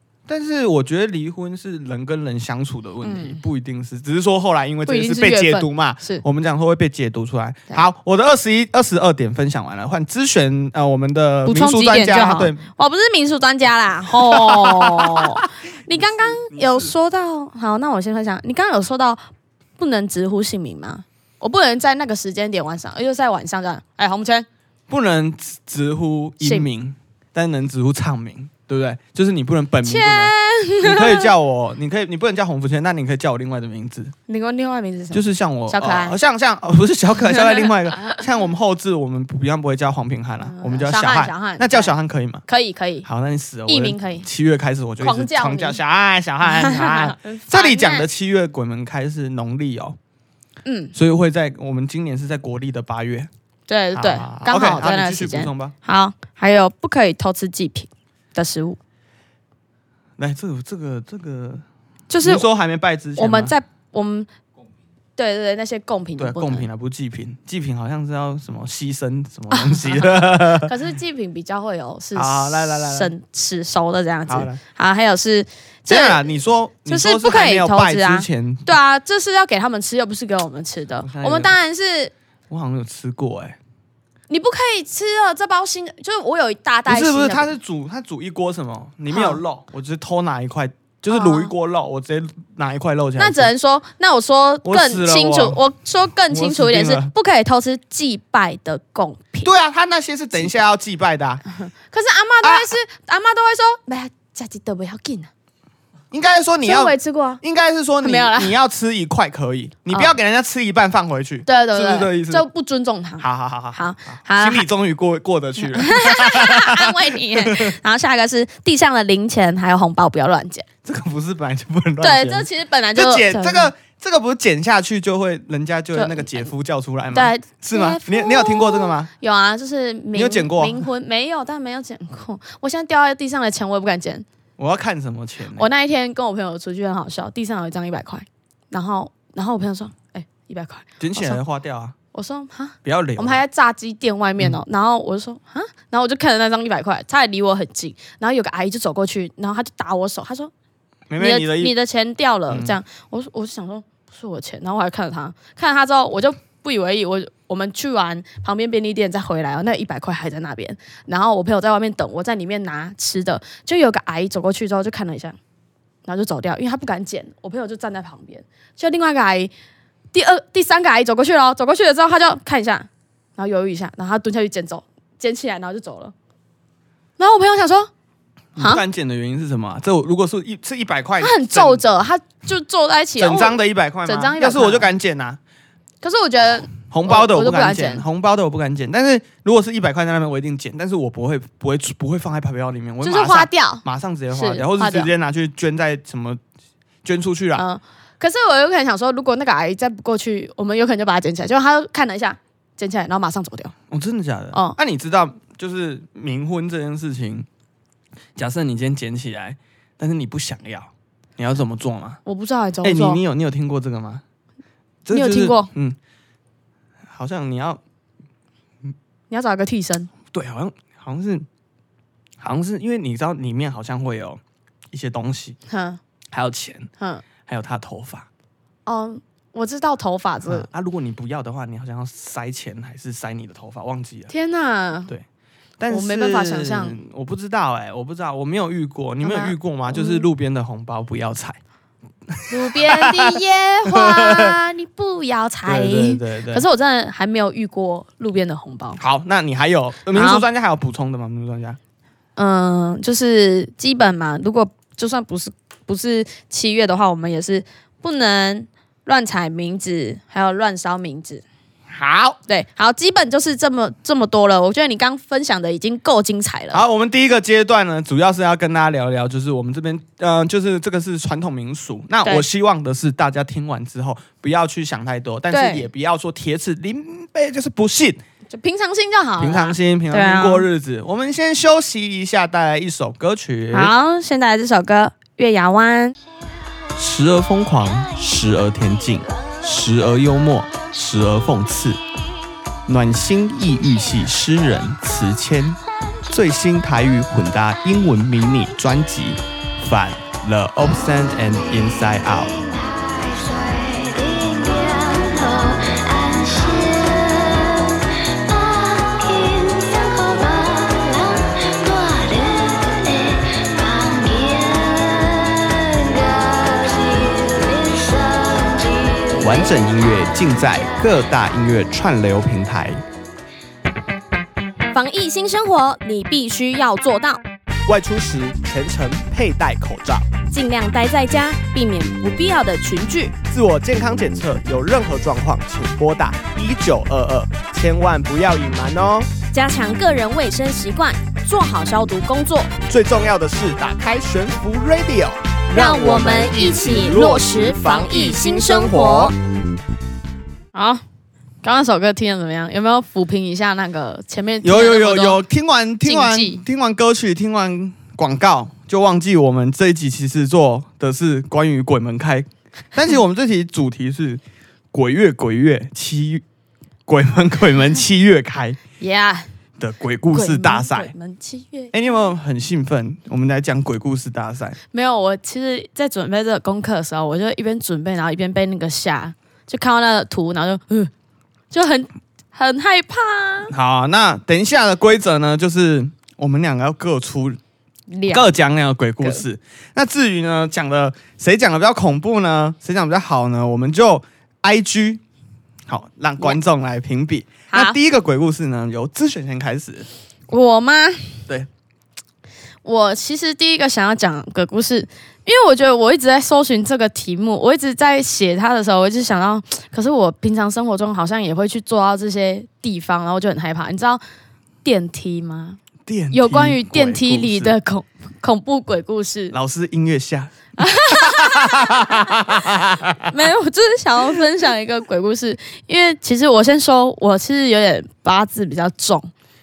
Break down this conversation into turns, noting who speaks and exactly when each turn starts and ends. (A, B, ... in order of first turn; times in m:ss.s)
0:00.3-0:12.6 A
0:03.0-0:03.4 B
0:04.9-0:06.2 B
0:11.4-0:19.2 B
0:14.1-0:16.9 A
0:19.8-0:24.4 B
0:24.9-0:34.1 A
0:26.4-0:26.7 B
0:29.8-0:31.3 B
0:34.3-0:36.2 B
0:35.1-0:42.4 A
0:40.4-0:41.9 B
0:42.5-0:43.1 B
0:43.0-0:50.0 A
0:43.7-0:44.2 B
0:45.0-0:45.8 B
0:46.5-0:48.1 B
0:50.6-0:50.9 B
0:50.9-0:53.3 A
0:53.7-0:58.8 B
0:53.9-0:55.7 A
1:00.2-1:01.6 A
1:02.1-1:02.4 B
1:02.2-1:03.5 A
1:03.2-1:04.3 B
1:05.2-1:06.6 B
1:06.2-1:10.7 A
1:09.5-1:10.0 B
1:10.6-1:16.2 B
1:12.2-1:13.1 A
1:14.3-1:14.6 A
1:15.9-1:18.7 A
1:16.9-1:22.1 B
1:21.0-1:21.5 A
1:22.5-1:23.6 A
1:24.3-1:27.5 B
1:26.9-1:33.5 A
1:29.1-1:29.4 B
1:31.1-1:31.5 B
1:33.2-1:39.5 B
1:34.6-1:35.6 A
1:36.3-1:37.1 A
1:39.4-1:41.4 A
1:41.6-1:45.3 B
1:42.4-1:42.7 A
1:46.1-1:52.4 A
1:46.6-1:47.4 B
1:48.0-1:48.5 B
1:51.4-1:54.7 B
1:53.2-1:57.7 A
1:55.7-2:00.6 B
2:00.8-2:09.1 A
2:02.0-2:03.7 B
2:05.9-2:06.5 B
2:07.1-2:14.2 B
2:10.1-2:10.8 A
2:14.6-2:15.7 A
2:15.6-2:21.4 B
2:21.0-2:22.0 A
2:22.1-2:30.5 B
2:22.8-2:23.4 A
2:31.1-2:31.7 A
2:31.2-2:45.4 B
2:32.5-2:32.8 A
2:46.0-2:49.5 B
2:50.1-2:56.1 B
2:57.2-2:57.9 B
2:58.6-3:01.8 A
2:58.6-2:58.8 B
3:01.2-3:04.9 B
3:03.2-3:05.4 A
3:06.0-3:08.0 B
3:06.7-3:16.4 A
3:13.0-3:15.1 B
3:17.0-3:17.6 A
3:17.5-3:23.7 B
3:23.9-3:27.5 A
3:24.5-3:24.8 B
3:28.4-3:32.2 A
3:32.2-3:33.2 B
3:32.8-3:34.2 A
3:35.0-3:36.0 A
3:35.1-3:35.7 B
3:37.1-3:37.8 A
3:39.3-3:40.1 B
3:40.3-3:41.4 A
3:42.4-3:44.4 A
3:44.9-3:45.6 A
3:45.7-3:46.0 B
3:46.3-3:46.9 A
3:47.4-3:48.3 A
3:48.8-3:50.7 B
3:50.4-3:54.3 A
3:54.3-3:55.1 B
3:55.8-4:01.6 A
3:55.9-3:57.0 B
3:59.2-4:00.2 B
4:02.3-4:04.6 A
4:02.5-4:09.0 B
4:05.6-4:06.6 A
4:09.0-4:11.8 A
4:10.1-4:10.4 B
4:12.4-4:21.4 B
4:21.9-4:22.4 A
4:22.5-4:26.8 B
4:26.7-4:38.2 A
4:35.5-4:35.9 B
4:38.5-4:40.7 B
4:39.4-4:43.9 A
4:43.7-4:46.1 B
4:47.0-4:52.0 A
4:52.9-5:02.7 A
5:02.8-5:19.5 C
5:19.4-5:23.0 A
5:24.9-5:27.4 B
5:27.9-5:30.3 A
5:30.5-5:33.3 B
5:33.5-5:39.3 A
5:39.5-5:42.7 B
5:42.9-5:49.3 A
5:47.1-5:48.4 C
5:47.1-5:49.0 B
5:50.7-5:51.0 B
5:51.6-5:55.4 B
5:54.6-6:04.4 A
5:56.0-5:56.6 B
6:04.9-6:06.4 A
6:07.1-6:08.8 A
6:09.0-6:09.5 B
6:09.8-6:11.1 A
6:10.3-6:12.2 B
6:11.9-6:14.8 A
6:14.9-6:21.1 B
6:21.7-6:23.7 B
6:23.7-6:27.6 A
6:28.1-6:28.5 B
6:28.3-6:35.2 A
6:35.9-6:40.1 A
6:37.7-6:38.0 B
6:40.5-6:41.4 B
6:42.8-6:54.2 B
6:54.8-6:55.8 B
6:56.0-6:57.7 A
6:56.3-6:59.6 B
6:59.5-7:03.3 A
7:00.8-7:02.4 B
7:03.2-7:09.3 B